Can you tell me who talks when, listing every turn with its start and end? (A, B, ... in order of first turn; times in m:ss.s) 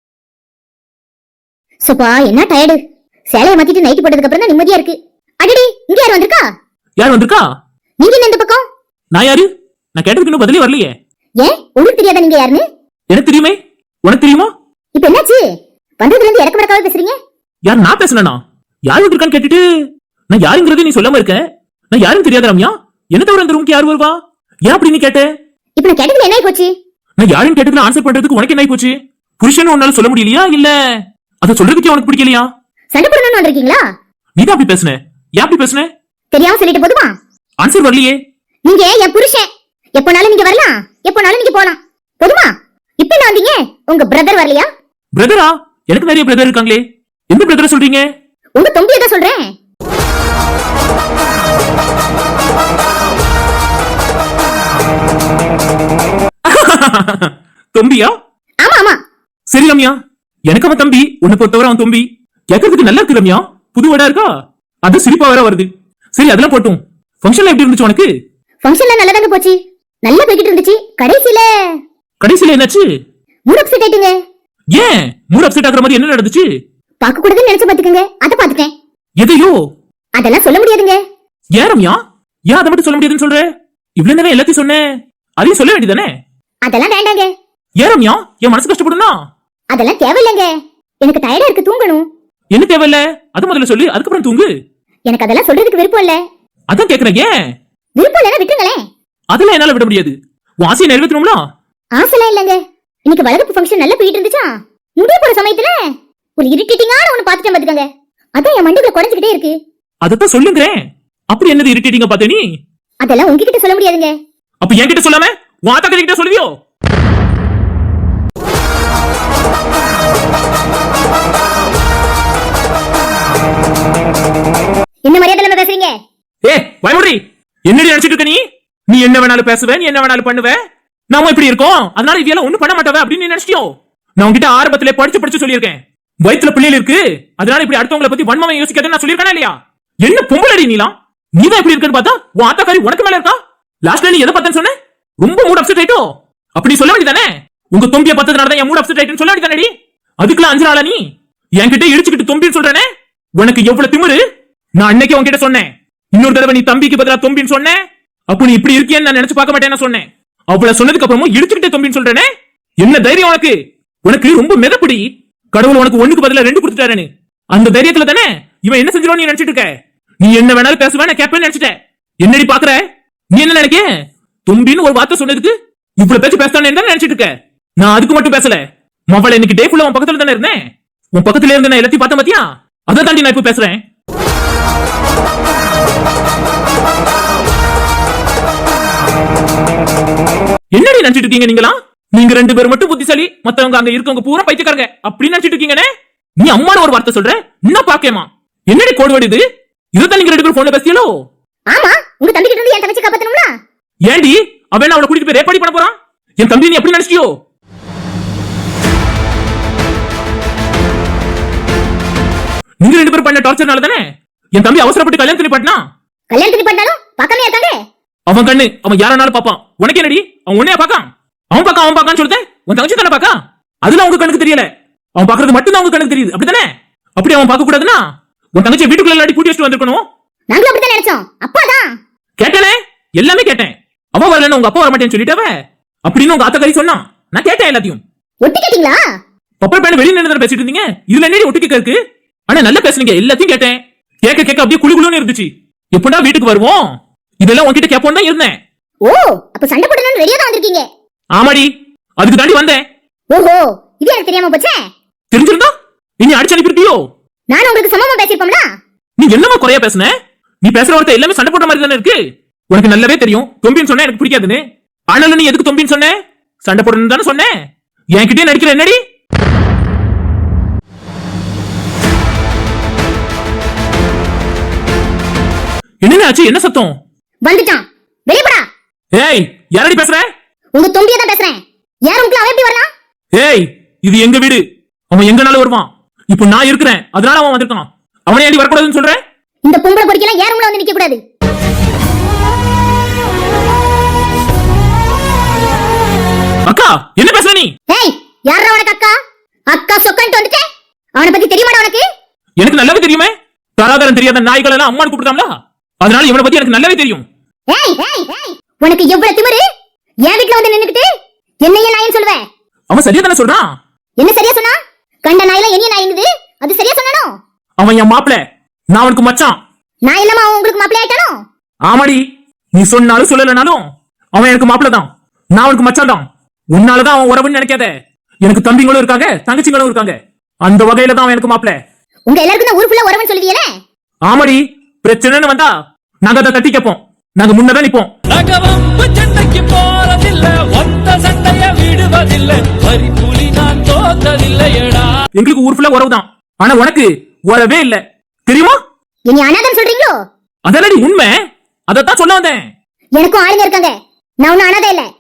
0:01.9-0:06.4 A
0:07.0-0:07.4 B
0:08.0-0:08.6 A
0:09.1-0:10.9 B
0:11.4-0:12.6 A
0:13.1-0:14.5 B
0:15.0-0:15.4 A
0:16.0-0:17.2 A
0:17.7-0:19.6 B
0:20.3-0:24.2 B
0:24.7-0:25.3 B
0:25.8-0:26.7 A
0:27.2-0:32.5 B
0:32.9-0:33.8 A
0:34.4-0:35.9 B
0:36.3-0:37.1 A
0:37.6-0:38.2 B
0:38.7-0:44.7 A
0:45.2-0:48.0 B
0:48.6-0:49.5 A
0:56.4-0:58.1 B
0:58.6-0:59.0 A
0:59.5-1:00.0 B
1:00.5-1:04.3 B
1:04.8-1:08.1 B
1:08.6-1:11.5 A
1:12.2-1:12.8 B
1:13.5-1:14.1 A
1:14.7-1:16.5 B
1:17.0-1:18.7 A
1:19.2-1:19.5 B
1:20.2-1:21.0 A
1:21.6-1:24.9 B
1:25.4-1:26.1 B
1:26.7-1:27.3 A
1:27.8-1:29.2 B
1:29.7-1:30.5 A
1:31.0-1:32.0 A
1:32.5-1:34.5 B
1:35.1-1:36.2 A
1:36.7-1:37.3 B
1:38.0-1:38.8 A
1:39.3-1:41.4 B
1:42.0-1:45.8 A
1:46.4-1:47.9 A
1:48.4-1:49.5 A
1:50.0-1:50.8 B
1:51.3-1:52.5 B
1:53.0-1:54.1 A
1:54.6-1:56.5 B
2:05.1-2:05.9 A
2:06.4-2:10.6 B
2:11.1-2:29.7 B
2:30.2-2:31.0 B
2:31.6-2:32.8 B
2:33.4-2:34.2 B
2:34.8-2:37.8 B
2:38.3-2:42.3 B
2:42.8-2:53.8 B
2:54.5-3:00.6 B
3:01.2-3:03.8 B
3:10.7-3:15.9 B
3:16.4-3:19.4 B
3:20.0-3:21.1 B
3:21.7-3:23.5 A
3:24.1-3:27.3 B
3:32.8-3:34.0 B
3:34.6-3:35.8 B
3:36.3-3:37.8 A
3:38.3-3:50.0 B
3:50.5-3:51.9 A
3:52.4-3:55.5 B
3:56.1-3:58.0 B
3:58.4-3:59.0 A
3:59.6-4:02.0 B
4:02.5-4:08.6 B
4:09.0-4:10.9 A
4:11.4-4:12.8 B
4:13.3-4:14.8 A
4:15.3-4:17.0 B
4:17.5-4:18.7 A
4:19.2-4:20.1 B
4:20.6-4:27.5 B
4:28.2-4:29.0 B
4:36.0-4:37.0 B
4:37.4-4:38.6 A
4:39.1-4:40.3 B
4:40.8-4:42.9 A
4:43.4-4:49.2 B
4:49.7-4:51.2 A
4:56.7-4:57.7 B
4:57.9-4:59.1 A
4:59.7-5:00.6 A
5:01.2-5:02.0 A
5:02.6-5:07.2 B
5:07.7-5:09.6 A
5:10.3-5:11.1 A
5:11.6-5:12.4 A
5:12.9-5:13.7 B
5:14.2-5:17.3 A
5:17.8-5:19.6 B
5:20.1-5:21.4 A
5:21.9-5:22.2 B
5:22.8-5:23.8 B
5:24.4-5:27.9 B
5:28.4-5:31.8 B
5:32.3-5:33.7 A
5:34.3-5:35.7 B
5:36.2-5:38.1 B
5:38.3-5:45.2 C
5:45.3-5:48.8 B
5:49.3-5:50.1 A
5:50.7-5:51.3 B
5:51.9-5:52.7 B
5:53.2-5:55.1 A